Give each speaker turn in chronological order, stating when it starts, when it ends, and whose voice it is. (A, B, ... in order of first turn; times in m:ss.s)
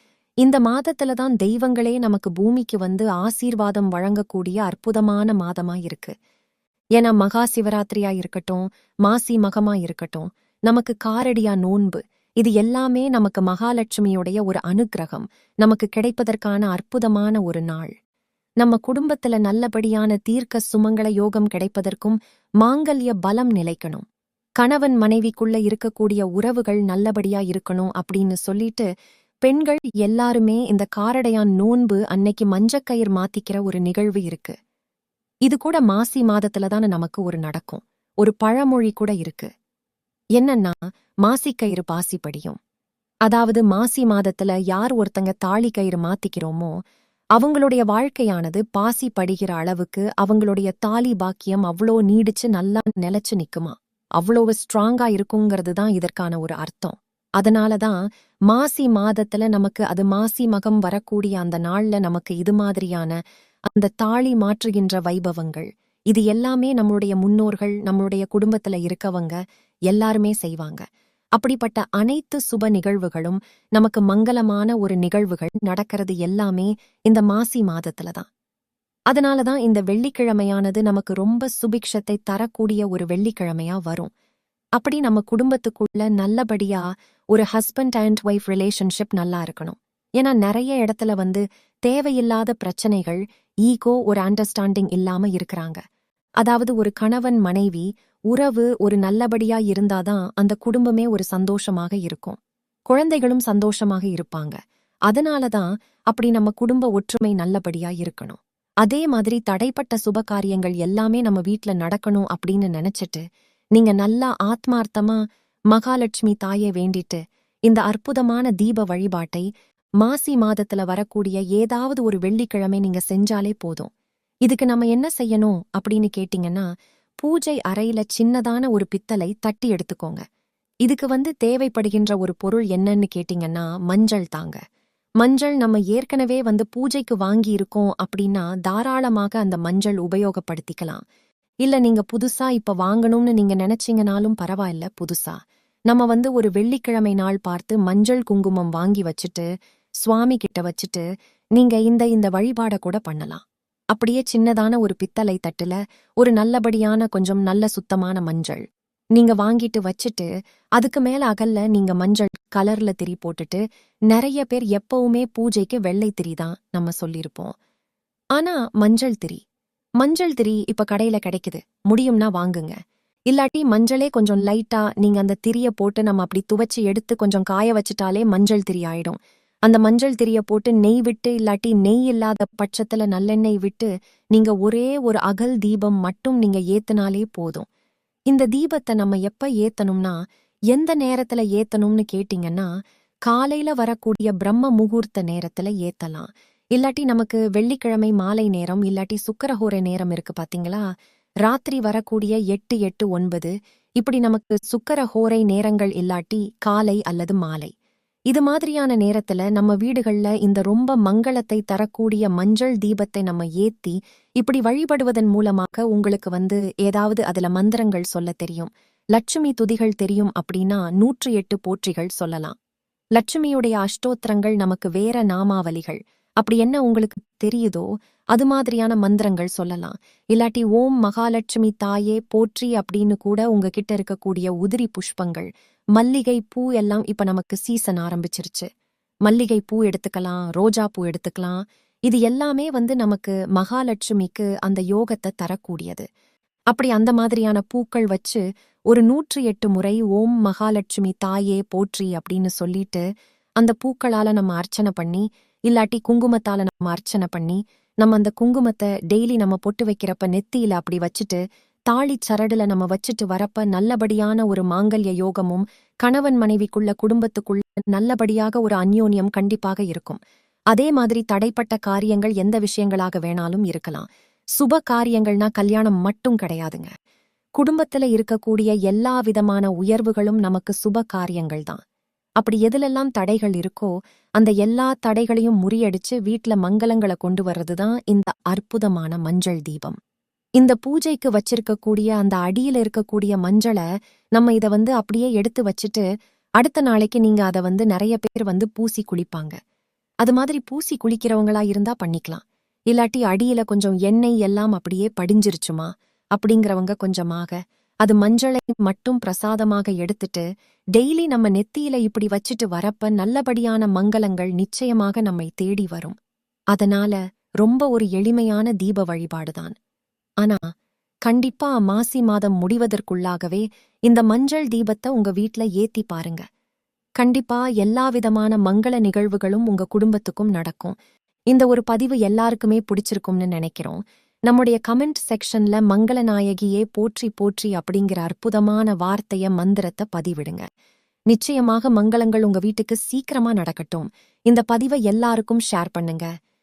0:00.4-0:06.1 A
0:07.0-0:17.9 A
0:18.6-0:24.0 A
0:24.6-0:28.9 A
0:29.4-0:34.6 A
0:35.5-0:39.5 A
0:40.4-0:42.6 A
0:43.3-0:46.8 A
0:47.4-0:58.0 A
0:58.5-1:03.2 A
1:03.7-1:09.4 A
1:09.9-1:10.8 A
1:11.4-1:18.3 A
1:19.1-1:24.1 A
1:24.8-1:35.8 A
1:36.4-1:42.4 A
1:42.9-1:53.2 A
1:53.8-1:55.2 A
1:55.7-1:59.5 A
2:00.0-2:03.9 A
2:04.4-2:06.7 A
2:07.2-2:10.2 A
2:10.8-2:14.6 A
2:15.2-2:21.0 A
2:21.6-2:25.4 A
2:25.9-2:29.5 A
2:30.0-2:31.0 A
2:31.6-2:33.4 A
2:33.9-2:38.6 A
2:39.2-2:47.5 A
2:48.4-2:49.4 A
2:50.0-2:52.8 A
2:53.3-3:07.7 A
3:08.3-3:10.2 A
3:10.7-3:12.7 A
3:13.3-3:20.8 A
3:21.4-3:27.7 A
3:28.3-3:42.6 A
3:43.2-3:58.7 A
3:59.3-4:06.0 A
4:06.7-4:13.0 A
4:13.6-4:30.2 A
4:30.7-4:34.1 A
4:34.6-4:36.9 A
4:37.6-4:41.8 A
4:42.4-4:50.0 A
4:50.6-4:53.8 A
4:54.4-4:56.0 A
4:56.6-4:59.6 A
5:00.2-5:10.4 A
5:11.0-5:16.2 A
5:16.7-5:19.8 A
5:21.3-5:26.4 A
5:27.2-5:31.0 A
5:31.5-5:40.6 A
5:41.3-5:46.3 A